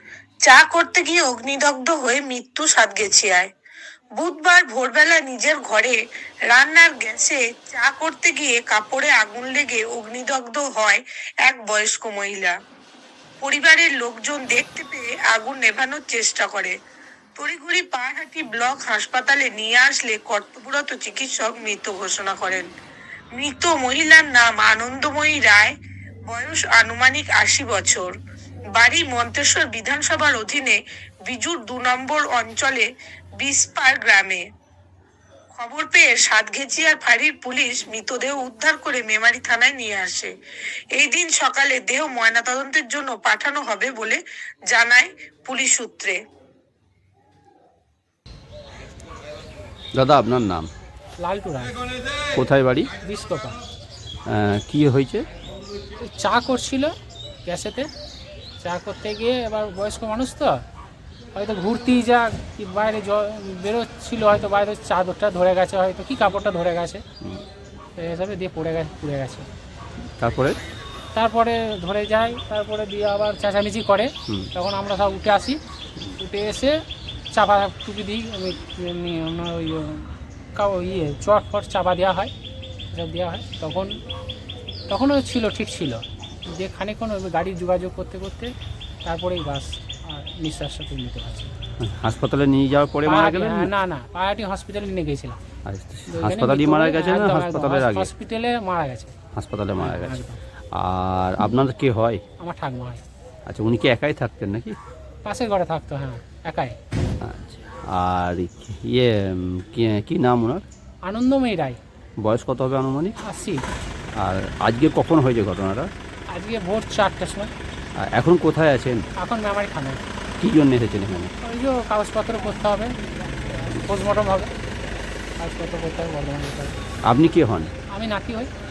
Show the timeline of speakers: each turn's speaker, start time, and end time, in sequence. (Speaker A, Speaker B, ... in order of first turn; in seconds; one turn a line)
Speaker A: 0.5-3.5
Speaker A: 4.2-6.0
Speaker A: 6.5-12.6
Speaker A: 13.4-16.7
Speaker A: 17.4-22.7
Speaker A: 23.4-25.8
Speaker A: 26.3-28.1
Speaker A: 28.8-32.9
Speaker A: 33.4-34.4
Speaker A: 35.6-40.3
Speaker A: 40.9-44.2
Speaker A: 44.7-46.2
Speaker B: 49.9-50.7
Speaker C: 51.2-51.8
Speaker B: 52.3-52.9
Speaker C: 53.0-53.6
Speaker B: 54.3-55.2
Speaker C: 56.0-56.9
Speaker C: 57.5-57.9
Speaker C: 58.6-60.6
Speaker C: 61.3-67.0
Speaker C: 68.0-69.5
Speaker B: 70.2-70.6
Speaker C: 71.1-75.6
Speaker C: 76.2-76.8
Speaker C: 77.3-82.3
Speaker C: 82.9-84.0
Speaker C: 84.9-88.5
Speaker C: 89.0-91.5
Speaker B: 91.8-93.7
Speaker C: 93.1-95.4
Speaker B: 95.7-98.1
Speaker C: 96.1-99.2
Speaker B: 99.3-100.2
Speaker C: 99.8-100.4
Speaker B: 100.7-102.2
Speaker C: 102.4-103.0
Speaker B: 103.5-104.8
Speaker C: 105.2-106.8
Speaker B: 107.2-110.7
Speaker C: 111.0-111.8
Speaker B: 112.2-113.2
Speaker C: 113.2-113.7
Speaker B: 114.2-115.9
Speaker C: 116.3-117.5
Speaker B: 118.0-119.0
Speaker C: 119.2-120.0
Speaker B: 120.4-121.3
Speaker C: 121.4-123.0
Speaker C: 123.7-124.5
Speaker C: 125.4-126.8
Speaker B: 127.0-127.7
Speaker C: 127.9-128.5